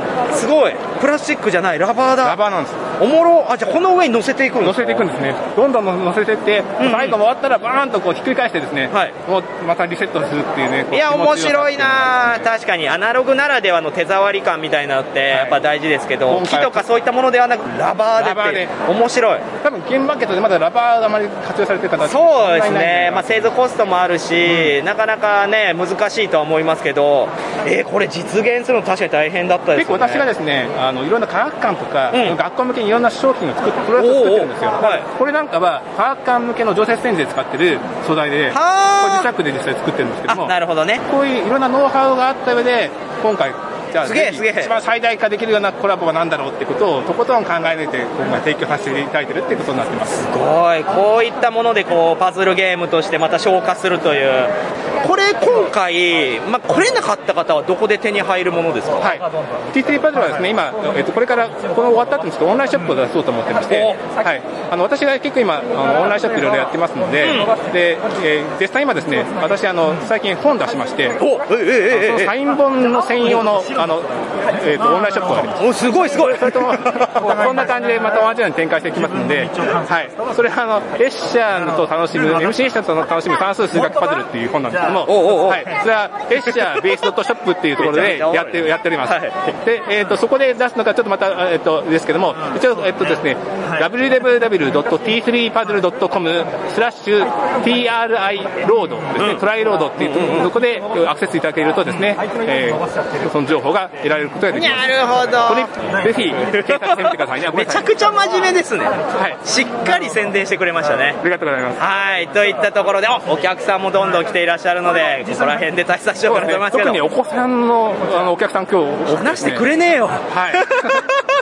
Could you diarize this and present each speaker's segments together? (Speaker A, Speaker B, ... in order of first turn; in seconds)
Speaker A: 0.3-2.4, 3.0-5.0, 6.8-7.2, 8.9-9.2, 10.9-19.5, 22.0-30.3, 32.1-32.4, 34.0-35.0, 38.5-39.3, 40.3-41.0, 44.0-44.7, 50.2-59.1, 63.7-64.2, 67.2-67.5, 71.2-72.3, 75.6-77.0, 85.0-85.7, 86.4-86.8, 87.8-89.5, 100.0-100.5, 104.5-105.7, 106.5-111.2, 111.8-117.1, 119.1-120.8
Speaker B: 2.2-2.8, 4.6-12.5, 15.3-15.6, 16.3-16.9, 18.1-18.8, 19.6-23.5, 24.4-24.7, 29.7-40.5, 41.0-50.3, 59.0-71.2, 71.9-104.9, 105.4-107.9, 109.1-109.4, 111.2-111.8, 116.2-119.7, 120.3-121.0